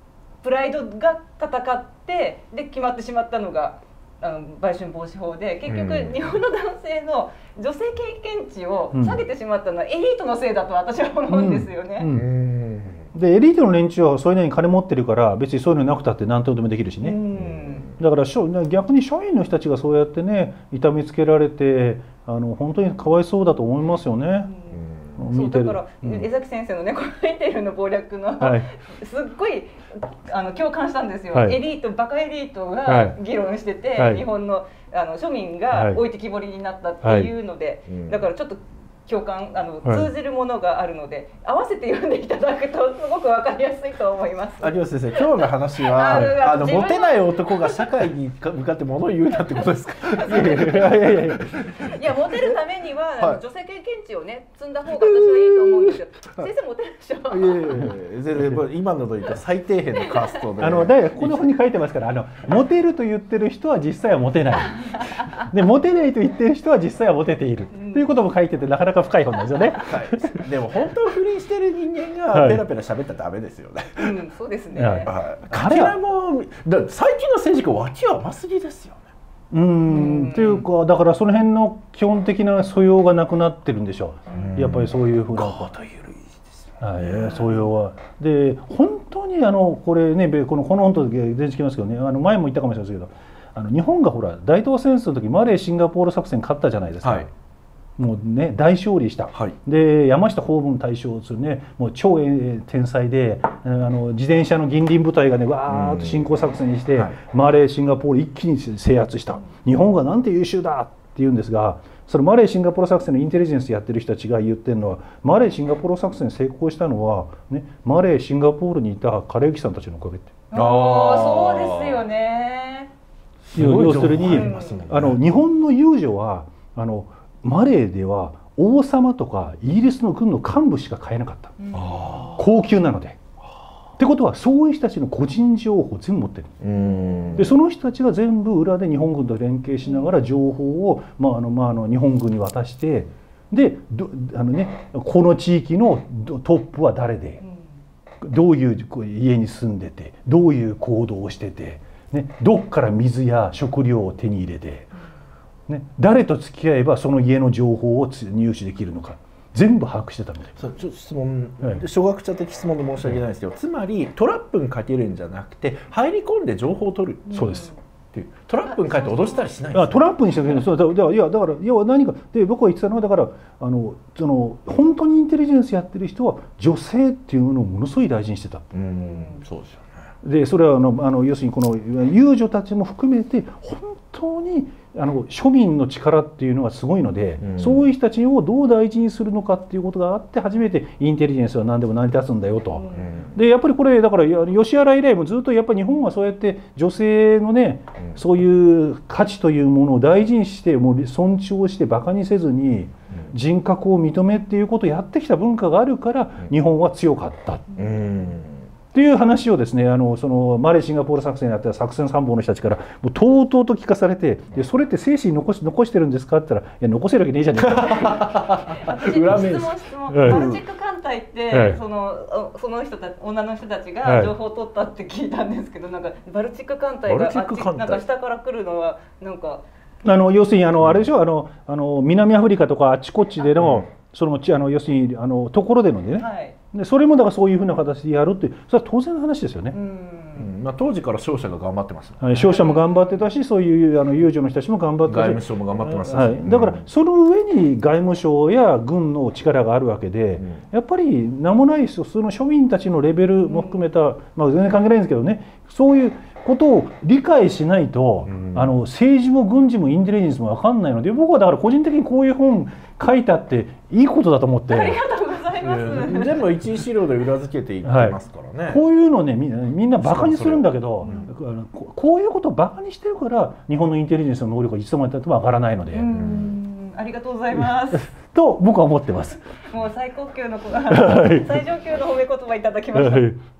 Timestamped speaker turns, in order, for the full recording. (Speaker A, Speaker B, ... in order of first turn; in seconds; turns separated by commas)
Speaker A: 0.4-12.1, Speaker B: 5.7-6.3, Speaker C: 8.9-9.2, Speaker C: 11.3-12.3, Speaker B: 12.1-13.1, Speaker C: 13.1-17.2, Speaker A: 17.0-17.9, Speaker B: 17.4-17.9, Speaker C: 18.0-24.5, Speaker A: 24.4-47.9, Speaker B: 24.7-25.1, Speaker C: 25.2-26.3, Speaker C: 28.4-28.7, Speaker C: 31.3-31.6, Speaker C: 32.9-33.2, Speaker C: 34.0-34.2, Speaker C: 35.7-36.0, Speaker C: 37.0-37.3, Speaker B: 37.9-38.2, Speaker C: 39.8-40.1, Speaker B: 44.6-51.9, Speaker C: 46.1-46.4, Speaker A: 50.0-51.2, Speaker C: 50.2-51.8, Speaker A: 51.8-57.8, Speaker C: 55.0-56.4, Speaker B: 57.3-61.5, Speaker C: 60.6-70.5, Speaker A: 67.7-68.1, Speaker B: 69.7-74.2, Speaker C: 72.3-72.6, Speaker A: 74.0-75.1, Speaker C: 74.7-76.0, Speaker B: 75.0-79.0, Speaker C: 79.5-85.7, Speaker A: 79.9-80.6, Speaker B: 84.3-86.4, Speaker C: 86.8-97.3, Speaker A: 87.0-87.5, Speaker C: 98.0-120.3, Speaker B: 105.7-106.3, Speaker A: 120.5-122.9, Speaker B: 120.5-122.0, Speaker B: 123.4-125.2, Speaker C: 123.5-131.6, Speaker A: 124.3-124.8, Speaker A: 131.6-132.4, Speaker B: 131.7-132.3, Speaker C: 132.3-133.2, Speaker C: 134.0-136.6, Speaker B: 136.6-137.5, Speaker A: 136.7-137.4, Speaker C: 137.3-147.4, Speaker A: 139.8-140.1, Speaker A: 147.4-147.7, Speaker C: 148.2-154.9, Speaker C: 155.7-160.6, Speaker B: 160.6-167.5, Speaker A: 167.3-167.8, Speaker C: 167.3-167.7, Speaker B: 168.1-170.1, Speaker A: 168.6-169.5, Speaker C: 169.7-178.7, Speaker B: 178.7-180.0, Speaker A: 178.9-179.4, Speaker C: 180.2-207.7, Speaker B: 187.4-187.9, Speaker A: 192.7-193.1, Speaker B: 192.9-193.3, Speaker A: 207.7-208.0, Speaker B: 207.8-208.7, Speaker C: 208.9-220.6, Speaker B: 217.6-219.7, Speaker A: 218.7-229.6, Speaker C: 221.5-221.8, Speaker C: 224.0-224.3, Speaker B: 227.1-228.0, Speaker C: 230.0-239.8, Speaker B: 233.6-233.8, Speaker A: 236.2-236.6, Speaker A: 239.7-240.5, Speaker B: 240.3-242.5, Speaker C: 242.2-265.0, Speaker A: 242.4-243.2, Speaker B: 245.0-246.8, Speaker B: 250.4-250.6, Speaker A: 253.4-253.8, Speaker B: 258.3-258.7, Speaker A: 264.7-266.5, Speaker B: 265.5-268.8, Speaker C: 267.8-276.1, Speaker B: 270.0-270.7, Speaker A: 271.0-271.3, Speaker A: 275.9-278.1, Speaker B: 276.1-276.5, Speaker C: 278.1-279.4, Speaker A: 279.6-283.3, Speaker C: 280.9-281.6, Speaker C: 282.9-283.4